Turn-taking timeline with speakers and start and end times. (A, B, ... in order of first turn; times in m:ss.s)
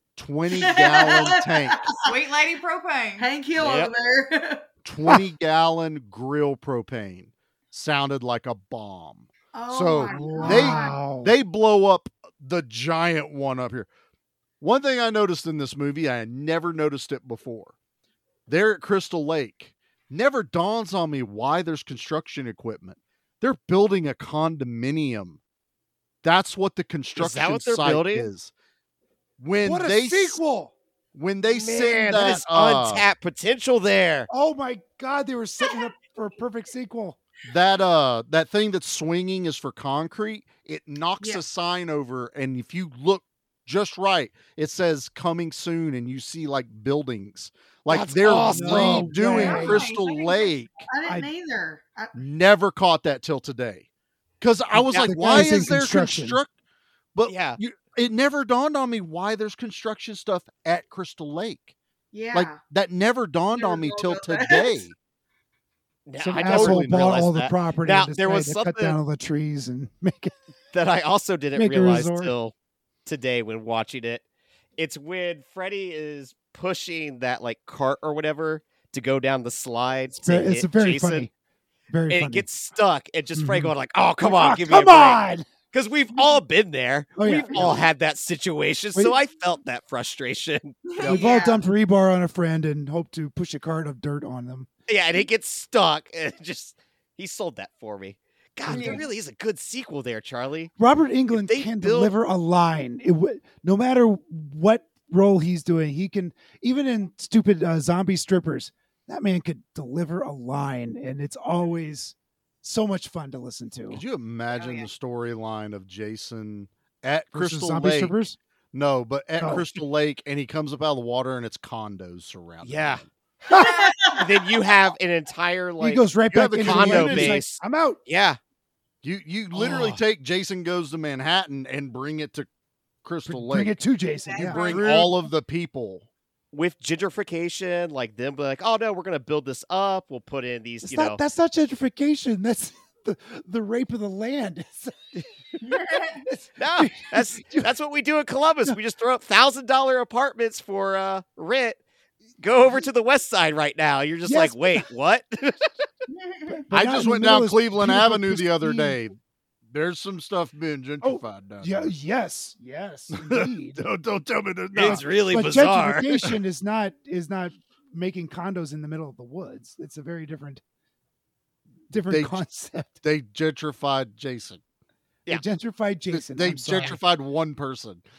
0:00.2-0:01.8 A
0:00.5-0:02.0 B
0:02.0-0:03.3 C
0:03.2-0:04.6 B
0:03.6-0:03.9 D
0:04.8-0:13.9 A
0:09.5-0:11.1 B
0:10.1-0:11.3 E
0:14.6-0:17.7 A
0:18.5-0:25.4 A
0:26.2-0:28.5 A
0:27.2-0:28.3 D
0:29.4-0:30.4 A
0:29.6-0:30.7 E
0:31.1-0:33.0 A
0:31.6-0:34.3 D
0:34.3-0:37.2 E
0:37.4-0:50.8 A
0:41.2-0:41.4 B
0:47.9-0:49.1 D
0:48.4-0:49.9 E
0:49.3-0:50.6 C
0:50.9-0:52.2 B
0:51.0-0:51.3 E
0:52.1-0:53.8 A
0:54.4-0:56.5 A
0:54.8-0:55.1 D
0:54.9-0:56.4 E
0:57.1-1:01.7 A
0:57.3-0:57.6 D
1:02.1-1:02.6 B
1:02.3-1:04.9 A
1:03.5-1:04.8 B
1:06.0-1:09.0 D
1:06.2-1:10.3 E
1:06.4-1:07.3 A
1:10.7-1:12.5 D
1:11.5-1:12.3 E
1:13.0-1:14.2 D
1:14.8-1:21.3 D
1:20.2-1:21.3 E
1:21.9-1:22.4 E
1:22.1-1:31.0 D
1:23.4-1:25.5 E
1:27.2-1:27.8 E
1:30.9-1:31.2 C
1:31.0-1:31.6 B
1:31.0-1:34.7 E
1:34.9-1:40.7 D
1:38.7-1:39.0 E
1:38.7-1:39.0 C
1:40.8-1:54.0 E
1:41.3-1:42.1 D
1:53.9-1:58.1 A
1:54.5-1:54.9 B
1:57.3-1:58.4 E
1:58.7-2:03.1 A
1:59.4-1:59.7 E
2:02.6-2:03.0 D
2:03.5-2:03.9 C
2:03.6-2:04.1 B
2:04.2-2:06.1 D
2:05.8-2:08.0 E
2:06.3-2:07.5 A
2:06.6-2:08.4 D
2:09.0-2:12.5 A
2:09.6-2:10.0 D
2:13.0-2:13.8 A
2:13.3-2:14.8 E
2:14.2-2:15.1 B
2:14.4-2:16.1 A
2:16.5-2:21.2 D
2:20.8-2:25.0 E
2:25.6-2:26.2 C
2:26.3-2:27.7 E
2:26.6-2:31.8 D
2:32.4-2:35.7 D
2:34.2-2:34.9 E
2:36.1-2:36.6 C
2:36.5-2:39.0 E
2:36.7-2:39.1 A
2:39.7-2:41.9 A
2:41.0-2:43.8 E
2:43.1-2:45.1 A
2:44.7-2:46.2 D
2:44.8-2:50.6 E
2:51.9-2:53.0 E
2:52.1-2:52.4 A
2:53.0-2:54.6 A
2:55.3-2:57.0 E
2:56.1-2:58.0 A